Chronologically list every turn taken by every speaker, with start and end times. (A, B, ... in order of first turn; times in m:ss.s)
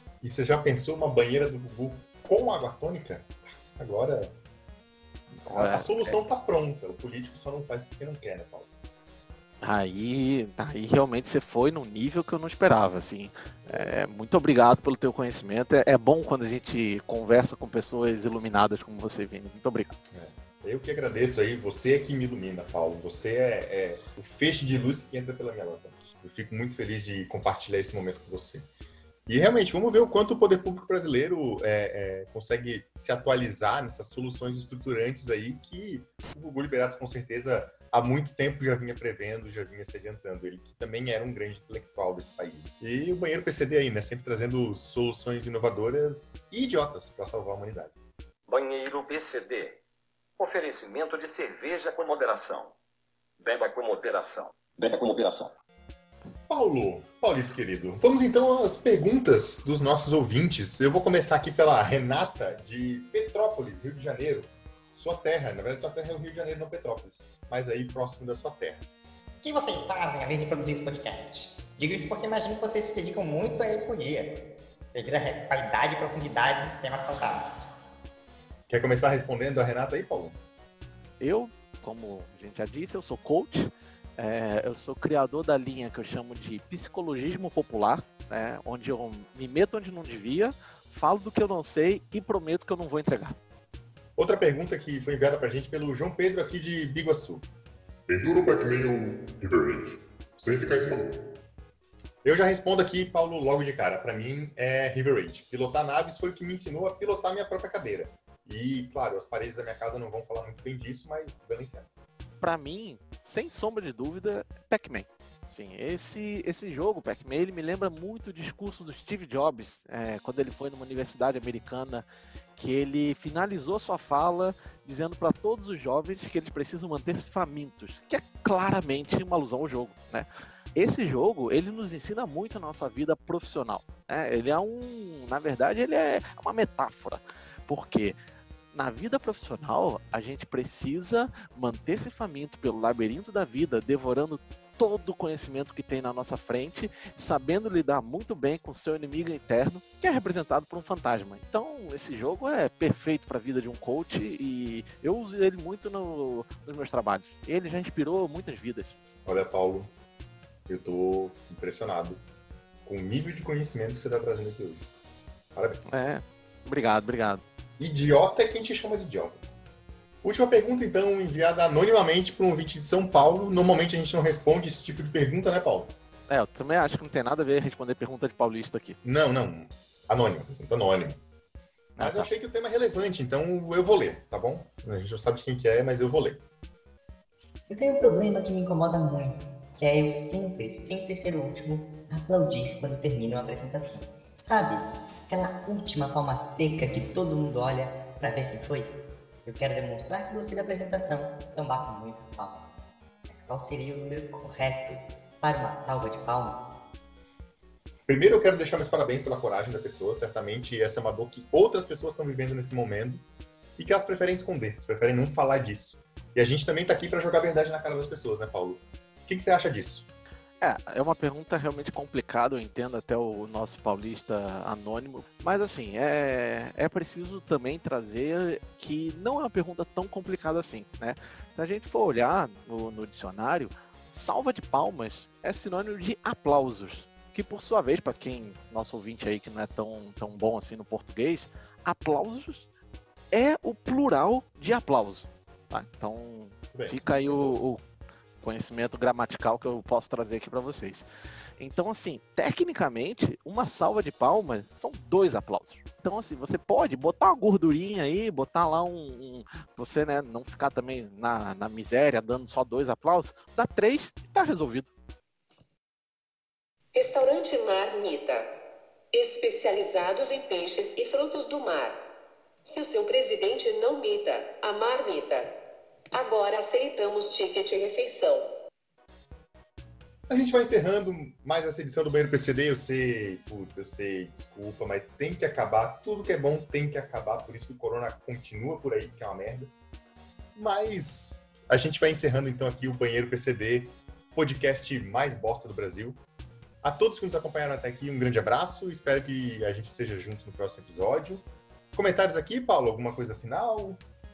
0:00.2-0:04.3 A
0:05.4-0:08.7 A
0:05.5-0:06.2 B
0:09.6-0:19.9 B
0:13.7-0:13.9 A
0:20.1-0:28.7 A
0:29.3-0:47.9 A
0:48.5-0:49.8 C
0:50.4-0:52.8 C
0:53.4-0:55.5 C
0:56.5-1:08.8 A
1:09.4-1:17.7 D
1:18.7-1:20.4 A
1:21.2-1:33.4 B
1:34.2-1:37.5 A
1:38.1-1:41.1 E
1:42.2-1:51.9 A
1:52.4-2:02.0 B
2:02.6-2:18.2 B
2:18.7-2:39.0 B
2:39.2-2:39.9 A
2:40.7-2:42.2 A
2:42.8-2:44.9 A
2:45.5-2:45.8 A
2:45.9-2:47.4 B
2:47.8-2:49.5 A
2:50.2-2:55.9 A
2:56.3-2:59.0 B
2:59.0-3:01.2 A
3:02.0-3:02.3 B
3:02.0-3:06.4 A
3:07.7-3:22.8 D
3:23.3-3:26.8 D
3:28.1-3:33.2 A
3:33.8-3:40.1 A
3:40.6-4:02.7 B
4:03.3-4:07.8 B
4:06.7-4:07.6 A
4:08.4-4:11.0 B
4:11.6-4:24.9 B
4:26.9-4:28.5 F
4:29.1-4:32.0 F
4:32.6-4:35.5 F
4:36.1-4:38.5 F
4:40.3-4:49.7 A
4:50.6-4:56.2 A
4:56.8-5:04.0 A